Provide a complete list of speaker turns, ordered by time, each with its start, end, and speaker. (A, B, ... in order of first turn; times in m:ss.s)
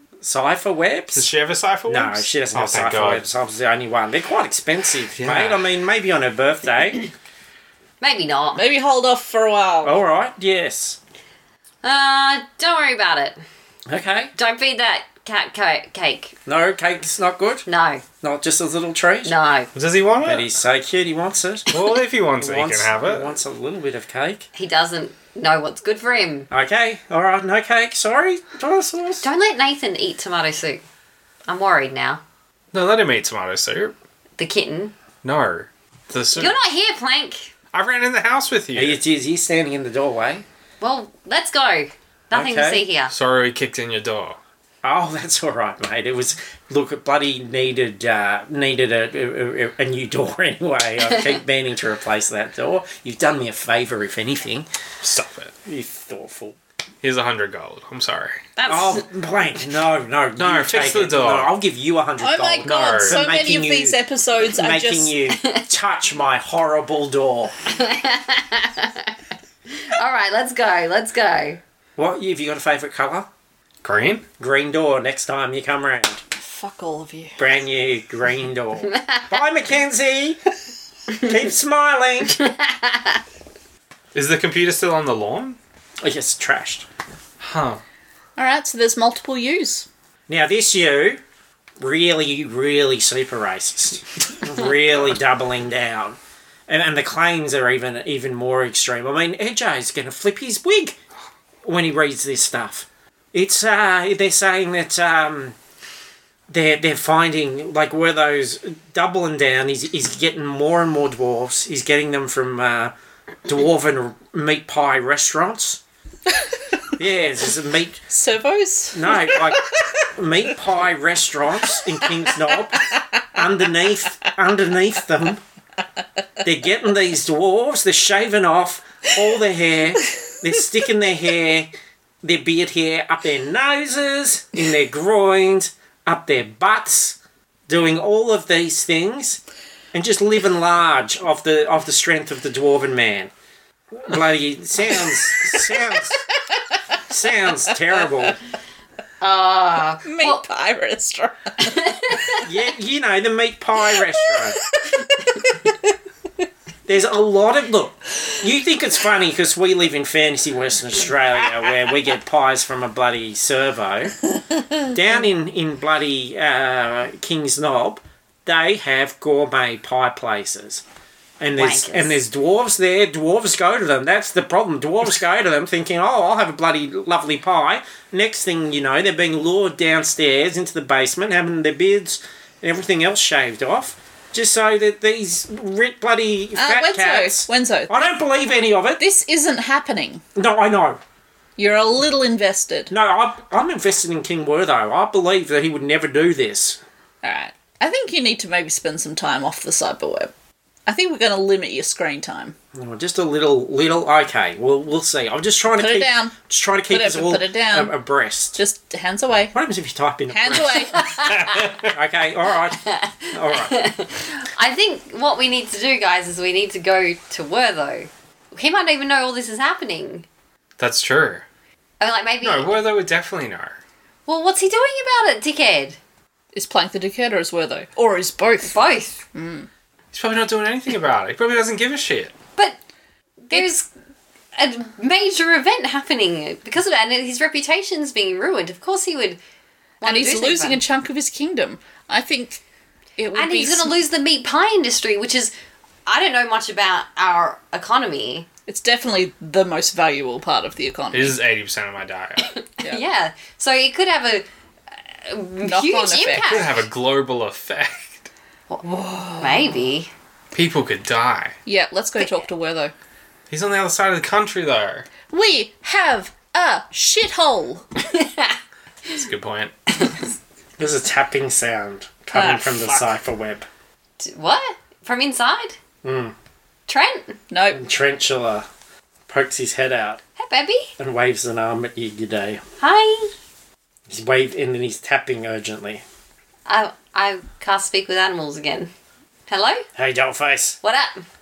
0:00.2-0:01.3 A
0:01.1-0:03.2 B
0:01.9-0:07.1 A
0:05.1-0:05.6 B
0:08.0-0:08.6 C
0:08.5-0:10.0 D
0:09.8-0:11.0 A
0:11.8-0:13.4 C
0:13.9-0:14.3 A
0:14.4-0:16.4 C
0:16.4-0:17.6 A
0:17.6-0:18.0 C
0:18.2-0:19.3 A
0:19.2-0:19.7 C
0:19.7-0:20.5 B
0:20.2-0:21.7 A
0:21.7-0:23.3 B
0:22.4-0:24.5 A
0:24.5-0:26.5 C
0:26.5-0:29.2 A
0:29.2-0:30.8 C
0:31.5-0:32.2 C
0:32.7-0:33.9 B
0:34.4-0:34.9 C
0:35.2-0:36.6 B
0:36.4-0:37.5 C
0:37.7-0:39.0 B
0:38.7-0:40.4 A
0:40.8-0:43.1 C
0:42.3-0:42.8 A
0:43.1-0:44.4 B
0:44.8-0:54.7 A
0:55.0-0:55.5 B
0:55.6-0:56.6 A
0:57.0-0:58.4 B
0:58.6-0:59.0 C
0:58.6-1:07.5 A
1:00.4-1:01.5 B
1:02.2-1:05.1 D
1:02.6-1:03.2 B
1:05.4-1:05.6 C
1:07.7-1:09.1 C
1:09.7-1:11.6 C
1:12.0-1:13.3 A
1:13.8-1:14.2 B
1:14.4-1:16.2 A
1:16.3-1:17.5 D
1:17.4-1:20.4 A
1:18.9-1:19.2 C
1:21.1-1:22.4 A
1:22.4-1:23.2 C
1:24.1-1:25.6 B
1:26.0-1:26.8 A
1:27.4-1:27.8 B
1:28.4-1:29.9 D
1:30.3-1:31.2 A
1:31.8-1:41.0 A
1:41.6-1:45.6 A
1:46.5-1:52.9 A
1:53.4-1:55.8 A
1:57.0-1:58.0 A
1:58.1-2:00.0 D
1:58.9-2:05.4 A
2:02.0-2:03.2 D
2:06.4-2:11.7 A
2:12.2-2:19.4 A
2:19.9-2:23.3 A
2:23.9-2:26.2 A
2:27.1-2:28.4 A
2:29.2-2:30.4 C
2:30.0-2:32.4 D
2:31.7-2:32.4 C
2:32.4-2:34.6 A
2:34.0-2:35.9 D
2:36.8-2:44.2 A
2:44.8-2:50.8 A
2:51.4-3:09.0 A
2:51.6-2:52.2 C
3:06.6-3:08.0 D
3:09.0-3:10.2 D
3:10.3-3:11.0 A
3:11.6-3:12.9 D
3:12.9-3:16.8 A
3:17.2-3:20.3 D
3:20.9-3:22.6 D
3:22.7-3:28.6 A
3:25.7-3:26.4 D
3:26.9-3:28.0 D
3:28.6-3:29.5 D
3:29.5-3:30.9 A
3:30.3-3:31.0 D
3:30.9-3:31.7 C
3:31.2-3:32.0 B
3:31.9-3:32.8 A
3:32.8-3:40.2 C
3:33.3-3:33.8 A
3:40.8-3:41.4 B
3:42.0-3:42.8 C
3:42.4-3:43.8 B
3:44.3-3:46.0 C
3:46.5-3:48.8 D
3:48.6-3:49.2 C
3:49.3-3:49.7 D
3:50.1-3:52.3 B
3:53.4-3:53.9 C
3:54.5-3:59.4 C
4:00.0-4:00.8 C
4:00.0-4:02.6 D
4:03.2-4:04.0 D
4:03.3-4:05.5 C
4:06.1-4:08.5 C
4:08.7-4:11.4 D
4:11.1-4:12.5 B
4:12.5-4:14.5 C
4:15.1-4:16.7 C
4:15.6-4:16.8 D
4:16.4-4:18.3 B
4:18.7-4:20.1 C
4:18.8-4:19.8 D
4:20.5-4:21.6 B
4:21.6-4:22.9 D
4:23.5-4:25.1 B
4:25.3-4:27.8 D
4:28.1-4:28.6 C
4:29.1-4:29.7 B
4:30.8-4:33.6 A
4:32.4-4:33.0 D
4:34.2-4:35.8 C
4:36.0-4:36.3 A
4:36.9-4:37.4 C
4:37.5-4:37.8 D
4:37.7-4:38.7 A
4:39.3-4:40.2 A
4:40.4-4:40.9 C
4:41.0-4:42.6 A
4:42.8-4:43.3 C
4:44.1-4:46.0 A
4:46.6-4:48.9 C
4:49.5-4:49.8 C
4:49.9-4:50.8 A
4:50.8-4:51.2 C